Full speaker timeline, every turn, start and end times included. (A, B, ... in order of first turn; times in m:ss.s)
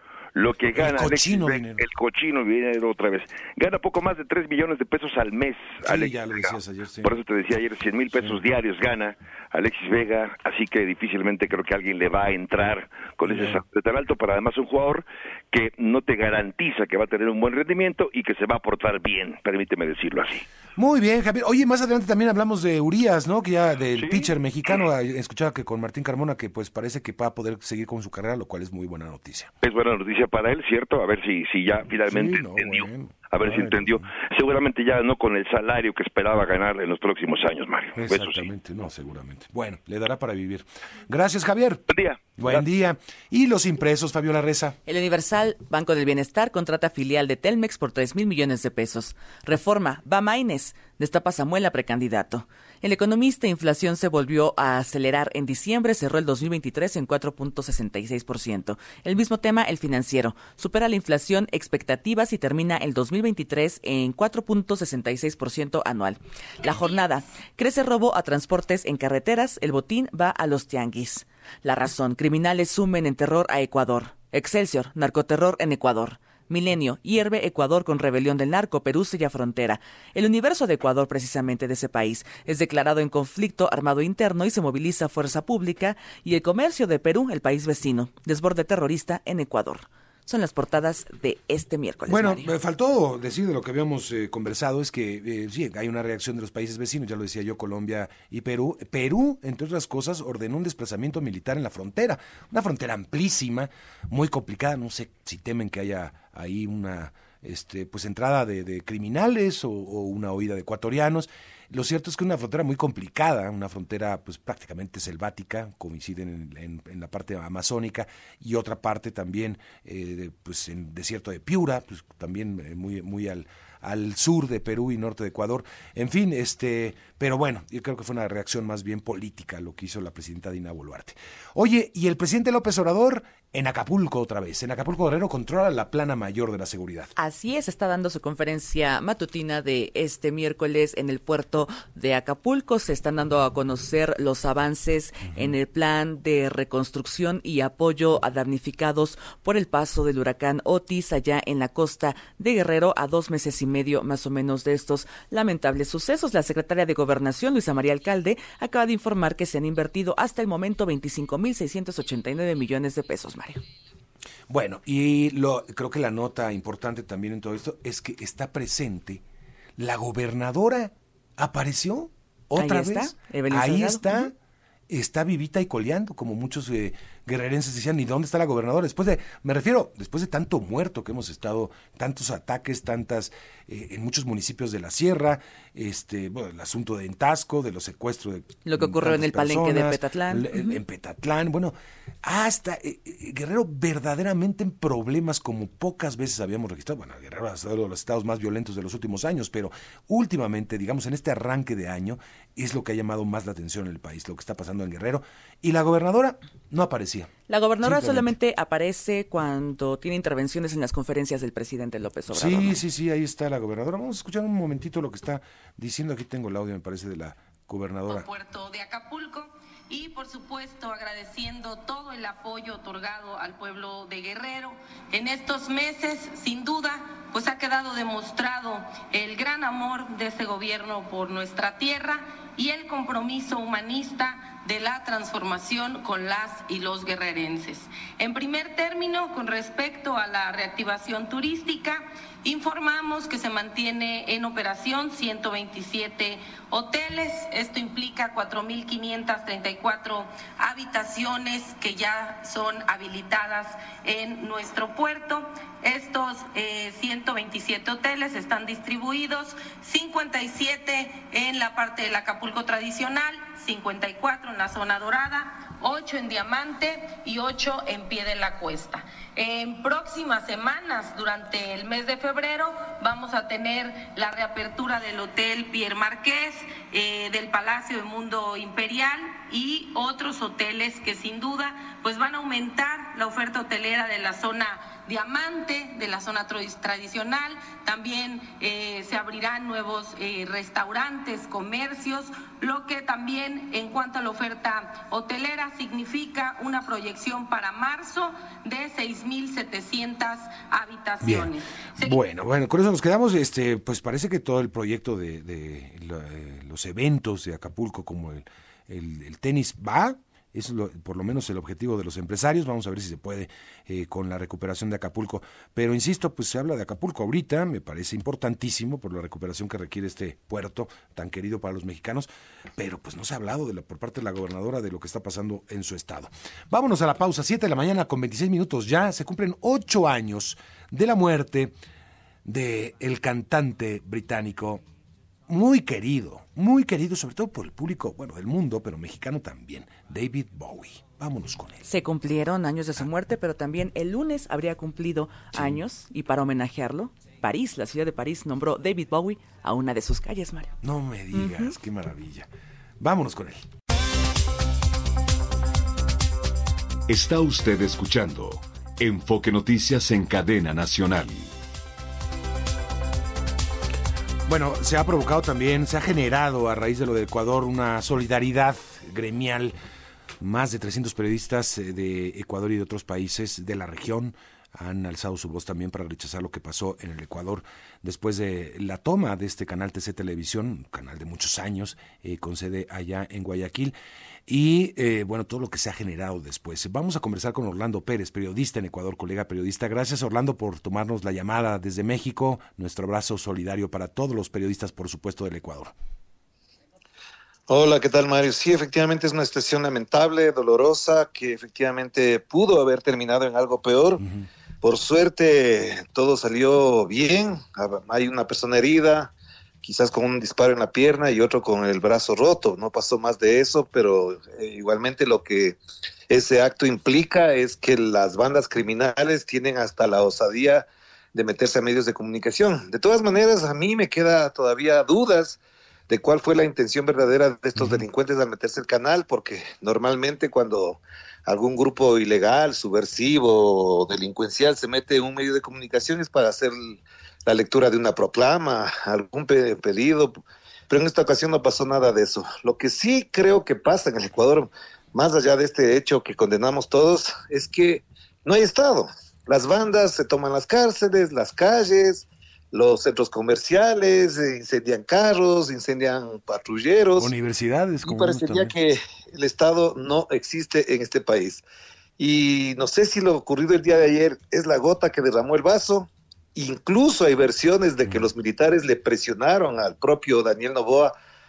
0:00.4-0:20.5 A
0:00.7-0:01.9 B
0:05.8-0:07.2 B
0:13.2-0:13.6 B
0:20.8-0:29.5 B
0:24.0-0:24.3 A
0:29.6-0:38.5 A
0:32.1-0:34.1 B
0:37.9-0:41.8 B
0:41.9-0:42.5 A
0:42.4-0:44.8 B
0:44.9-1:32.5 C
1:32.1-2:17.1 B
2:17.2-2:43.6 C
2:44.5-2:49.2 B
2:49.8-2:54.3 B
2:52.6-2:54.3 C
2:54.9-3:28.3 B
3:08.6-3:10.8 C
3:27.5-3:32.8 C
3:32.3-3:38.3 B
3:38.1-5:02.2 D
5:01.2-5:31.7 B
5:32.4-5:34.8 B
5:35.5-5:41.9 B
5:41.8-5:50.7 C
5:50.8-5:53.7 B
5:51.3-5:51.7 C
5:57.1-6:01.5 E
6:04.5-6:09.8 B
6:10.4-6:24.0 B
6:24.5-6:35.9 B
6:37.7-6:44.2 F
6:44.8-6:55.8 F
6:56.3-7:20.4 F
7:07.8-7:08.0 B
7:20.9-7:37.3 F
7:37.2-7:38.7 B
7:38.0-7:41.6 F
7:42.2-7:51.1 F